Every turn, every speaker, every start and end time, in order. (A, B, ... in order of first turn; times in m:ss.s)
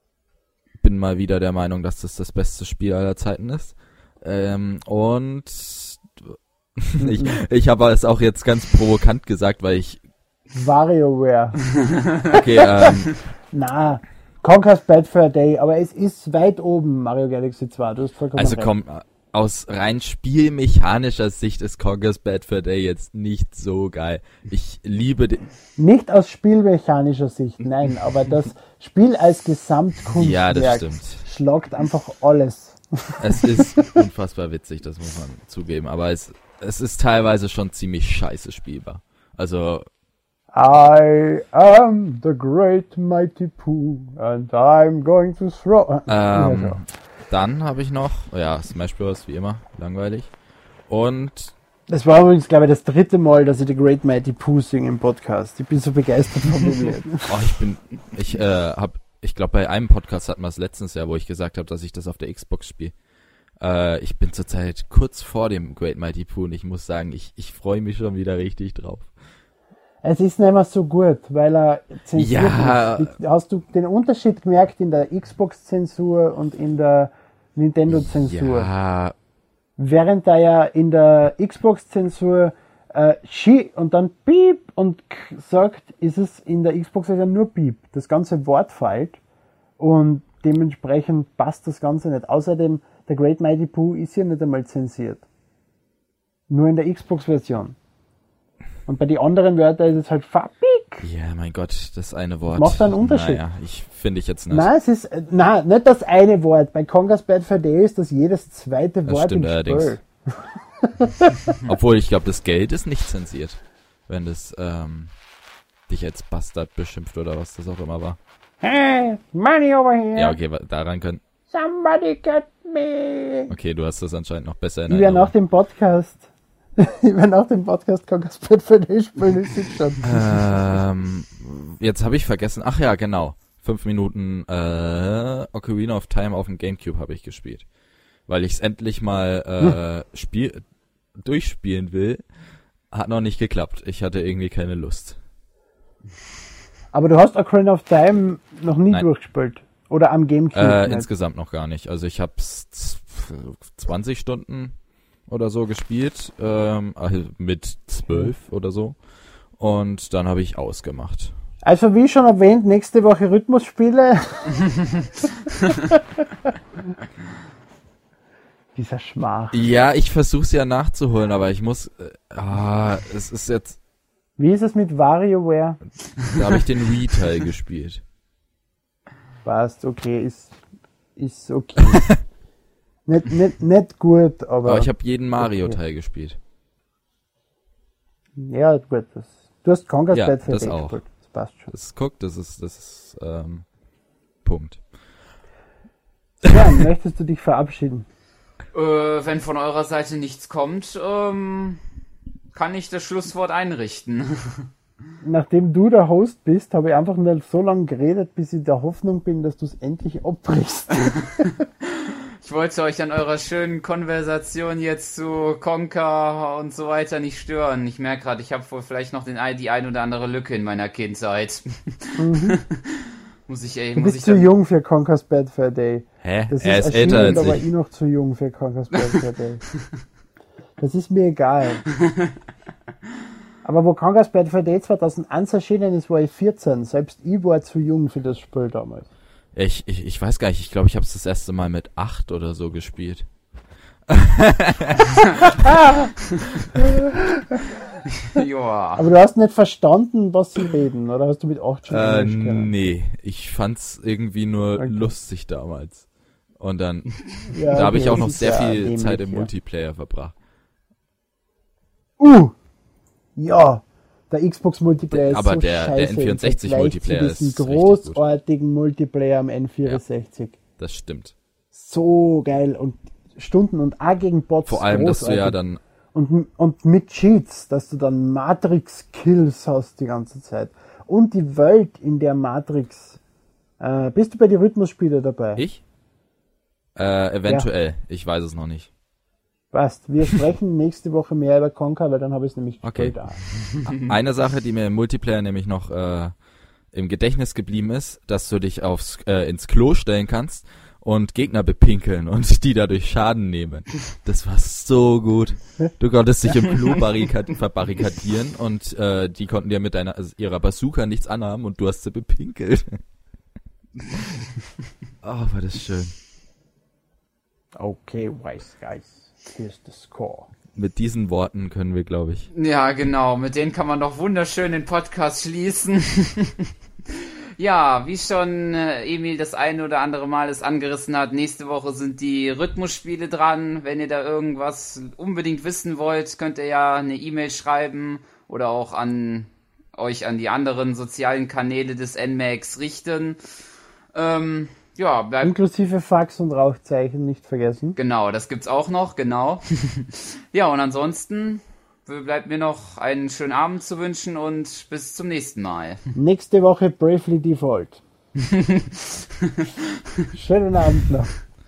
0:00.8-0:10.0 A
0:07.0-0:07.4 B
0:10.5-0:11.6 B
0:11.9-0:12.3 C
0:12.3-0:13.2 A
0:12.6-0:13.0 B
0:13.5-0:18.7 B
0:18.4-0:25.5 A
0:25.8-0:34.0 B
0:30.1-0:31.2 A
0:33.2-0:39.9 A
0:40.5-0:46.8 B
0:46.1-0:50.3 A
0:50.9-0:51.5 A
0:51.9-0:57.3 B
0:57.2-1:02.9 A
1:03.6-1:09.1 A
1:10.0-1:18.7 B
1:12.2-1:13.1 A
1:17.9-1:19.2 A
1:19.8-1:29.2 B
1:29.8-1:35.2 B
1:36.5-1:37.8 B
1:38.9-1:41.1 B
1:41.0-1:44.7 A
1:42.5-1:43.4 B
1:44.5-1:51.6 B
1:49.1-1:50.0 A
1:51.7-1:55.1 A
1:55.9-1:58.2 A
1:58.6-2:00.4 B
2:00.2-2:01.2 A
2:01.5-2:03.5 B
2:03.5-2:05.3 A
2:04.9-2:10.2 B
2:10.0-2:17.7 A
2:18.3-2:20.6 A
2:21.2-2:22.3 A
2:22.9-2:25.2 A
2:26.9-2:31.1 B
2:30.5-2:34.8 A
2:35.3-2:39.0 A
2:39.5-2:41.3 A
2:41.6-2:44.8 B
2:48.8-2:49.6 B
2:49.5-2:53.8 A
2:54.4-2:55.8 B
2:56.2-2:58.0 A
2:59.4-3:00.6 B
3:01.2-3:02.2 B
3:01.9-3:02.2 A
3:03.1-3:05.8 B
3:04.6-3:06.4 A
3:08.4-3:11.7 B
3:10.1-3:11.0 A
3:11.7-3:13.6 A
3:14.4-3:14.8 A
3:16.4-3:18.1 B
3:18.7-3:21.8 C
3:22.5-3:24.6 C
3:25.2-3:31.5 B
3:31.4-3:44.5 C
3:42.2-3:42.6 B
3:44.0-3:49.6 B
3:46.2-3:47.6 A
3:50.8-3:51.8 B
3:52.1-3:52.3 C
3:53.6-3:59.1 B
3:59.5-4:03.3 A
4:04.1-4:05.8 A
4:08.2-4:09.0 C
4:09.0-4:12.7 B
4:11.9-4:16.1 A
4:14.8-4:15.1 B
4:16.6-4:20.3 A
4:17.5-4:19.5 B
4:22.2-4:22.6 B
4:23.4-4:30.6 B
4:25.1-4:28.2 A
4:30.8-4:31.3 A
4:31.7-4:35.6 B
4:34.7-4:35.8 A
4:36.1-4:43.2 B
4:43.8-4:45.6 B
4:45.6-4:45.8 A
4:47.0-4:48.9 A
4:49.7-4:53.4 B
4:52.8-4:56.3 A
4:56.9-5:13.0 A
5:15.2-5:16.2 A
5:17.8-5:20.5 B
5:20.8-5:22.5 A
5:22.5-5:43.4 C
5:44.1-5:45.5 C
5:45.4-5:48.0 B
5:48.0-5:56.0 C
5:56.2-5:58.0 B
5:58.4-5:59.8 C
6:00.3-6:01.3 B